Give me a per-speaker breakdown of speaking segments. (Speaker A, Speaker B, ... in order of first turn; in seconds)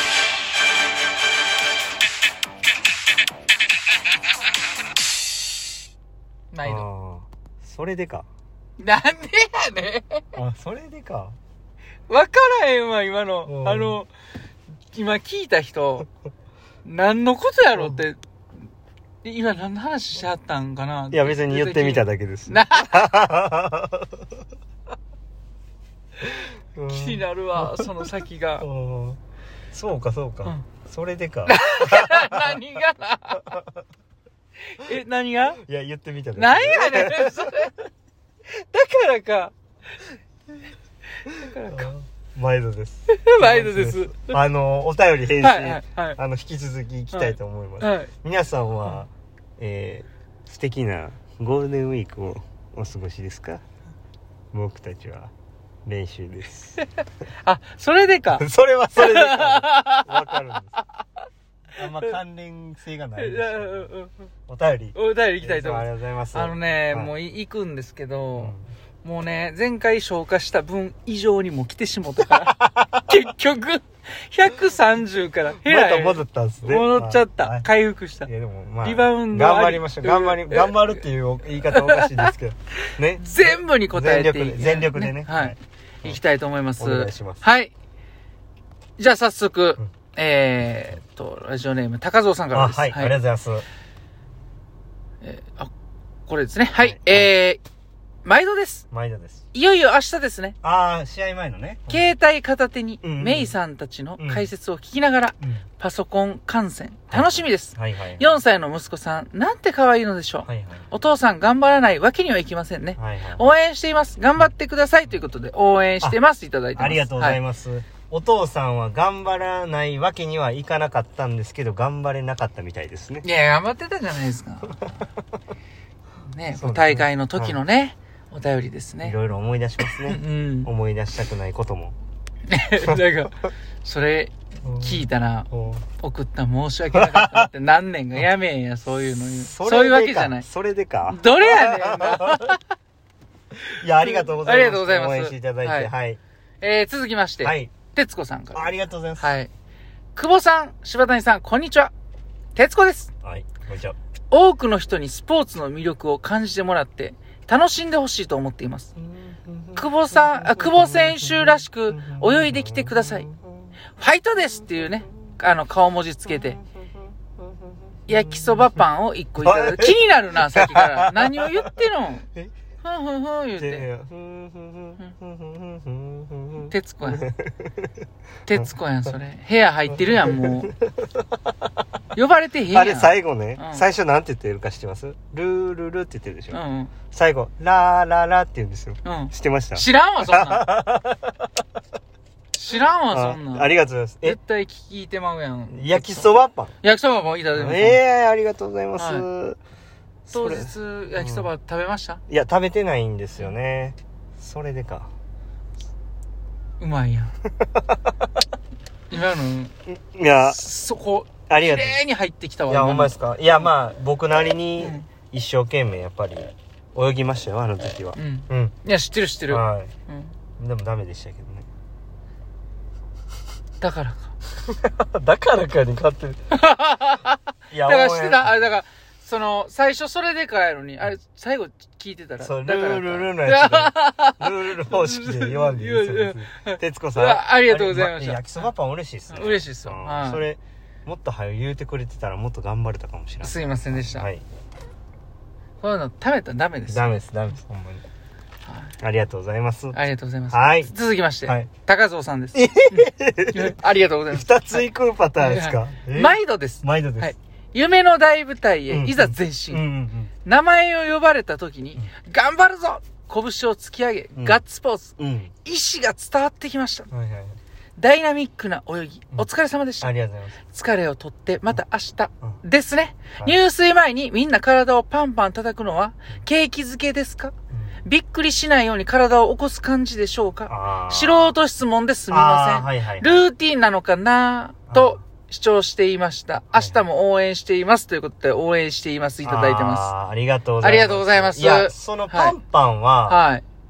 Speaker A: 6.5-6.8, 8.8-10.3, 12.1-14.1, 14.9-16.1, 16.9-18.2, 19.2-23.1, 26.3-28.7, 31.5-33.6, 34.7-35.6, 36.4-37.8, 38.5-39.5, 41.3-41.9, 43.1-44.4, 45.4-46.2, 47.1-48.1, 56.8-60.9, 63.2-64.3, 65.0-78.3, 78.8-81.0, 81.7-82.3, 83.2-87.7, 89.0-93.2, 95.2-95.7, 96.3-97.6, 98.2-98.9, 99.5-100.6, 101.9-117.4, 123.2-125.1, 126.3-129.2, 129.8-130.7, 132.5-140.5, 141.1-142.6, 144.0-145.9, 146.6-149.5, 150.2-151.9, 152.6-153.1, 154.3-158.9, 159.8-163.3, 164.0-166.6, 168.1-172.3, 172.8-173.9, 176.6-177.3, 178.5-180.7, 182.2-183.9, 186.5-186.9, 189.1-190.7, 192.5-198.0, 199.0-199.3, 200.3-202.2, 206.8-207.3, 209.1-209.8, 210.4-213.7, 214.8-215.1, 218.2-220.3, 223.8-224.3, 226.5-238.7, 239.3-240.4, 243.4-244.3, 245.8-247.2, 248.7-248.9, 249.9-254.8, 255.4-259.8, 260.4-267.1, 268.0-270.1, 270.7-277.5, 278.1-290.1, 290.8-292.6, 293.3-293.6
Speaker B: 6.6-8.3, 10.3-11.4, 13.5-14.0, 17.8-18.0, 21.1-24.3, 26.4-29.2, 29.7-32.6, 35.5-37.7, 41.4-53.6, 54.5-55.3, 55.9-56.8, 58.3-60.8, 61.8-63.9, 64.5-67.1, 68.3-68.7, 72.3-73.2, 75.6-77.7, 78.2-86.2, 86.8-87.4, 92.5-93.7, 96.8-97.3, 98.9-99.4, 100.6-102.1, 103.0-103.5, 104.2-104.5, 107.1-108.4, 110.5-110.9, 113.0-113.5, 116.8-123.2, 126.5-127.6, 129.0-131.9, 134.6-135.8, 136.9-137.5, 139.3-142.6, 143.7-146.2, 147.4-147.7, 148.6-149.3, 153.2-154.0, 159.0-163.7, 164.6-165.1, 166.3-166.6, 167.4-168.8, 169.4-171.8, 173.6-177.9, 179.9-181.5, 182.7-186.6, 187.1-191.5, 193.1-194.4, 195.7-196.7, 197.5-199.6, 200.3-201.5, 202.3-205.1, 207.6-208.0, 209.9-210.6, 211.5-212.0, 212.7-218.8, 219.5-219.9, 220.6-221.7, 224.6-226.4, 227.7-228.6, 232.4-244.4, 246.9-248.0, 249.0-250.0, 250.5-250.9, 252.6-253.8, 254.3-257.3, 258.9-260.3, 264.4-264.6, 265.2-265.5, 267.1-267.6, 270.0-270.6, 277.7-278.0, 280.7-281.6, 282.3-283.5, 284.9-285.2, 286.7-287.0, 289.4-293.4